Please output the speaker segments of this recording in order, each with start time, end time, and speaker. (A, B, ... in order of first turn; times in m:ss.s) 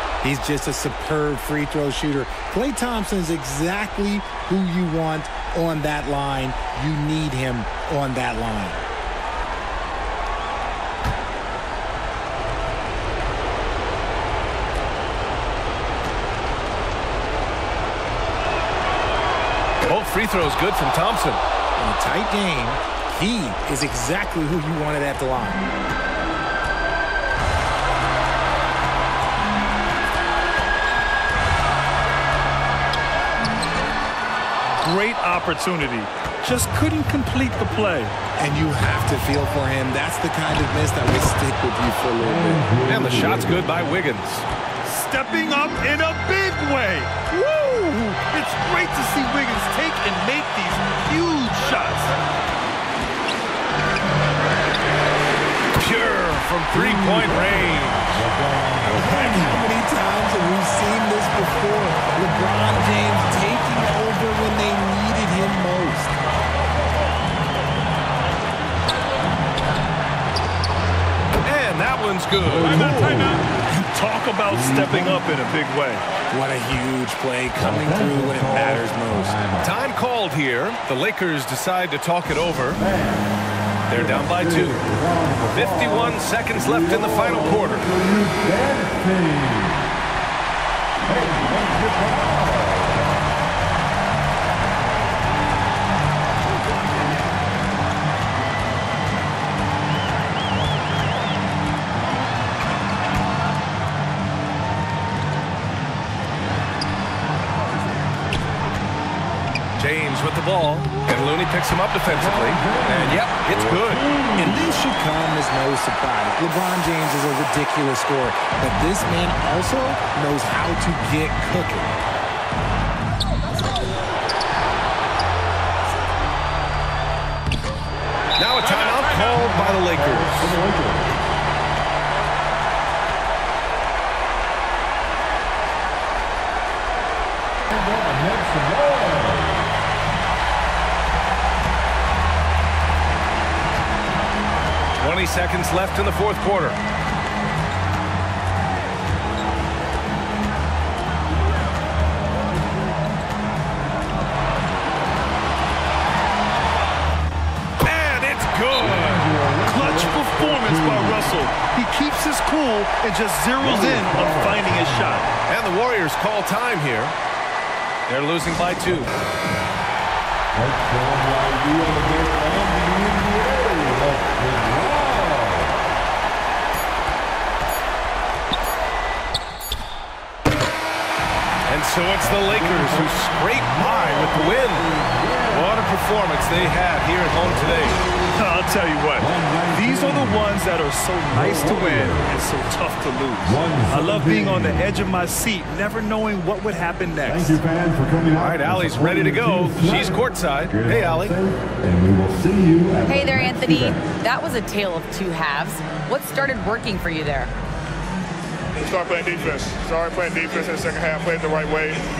0:00.2-0:08.8 A
0:19.8-0:21.4 B
0:21.8-0:25.7 A
0:34.8-0:38.2 C
0:38.4-0:42.7 A
0:42.2-0:43.7 D
0:42.9-0:44.5 B
0:44.8-0:52.1 C
0:55.8-0:58.2 B
0:56.7-0:59.6 D
0:58.8-1:06.2 A
1:11.4-1:13.4 B
1:12.4-1:13.6 D
1:13.7-1:16.0 C
1:14.5-1:15.2 D
1:16.3-1:19.4 A
1:17.6-1:19.8 D
1:19.6-1:22.8 B
1:22.8-1:23.3 D
1:23.9-1:24.8 B
1:23.9-1:29.8 D
1:25.5-1:27.9 B
1:31.0-1:33.1 D
1:49.8-1:54.1 B
1:52.0-1:54.9 D
1:54.4-2:01.9 A
2:08.4-2:10.6 B
2:09.5-2:11.2 D
2:17.7-2:19.7 D
2:25.0-2:26.8 B
2:37.8-2:39.4 B
2:38.8-2:41.3 D
2:39.6-2:45.3 C
2:43.6-2:45.2 D
2:45.5-2:47.2 B
2:48.1-2:49.1 B
2:50.5-2:55.7 D
3:01.7-3:08.0 B
3:02.2-3:05.8 D
3:08.4-3:17.6 C
3:09.2-3:10.5 D
3:11.3-3:12.3 D
3:13.4-3:14.9 D
3:17.3-3:24.0 D
3:18.4-3:21.4 B
3:23.1-3:27.5 E
3:28.8-3:32.0 F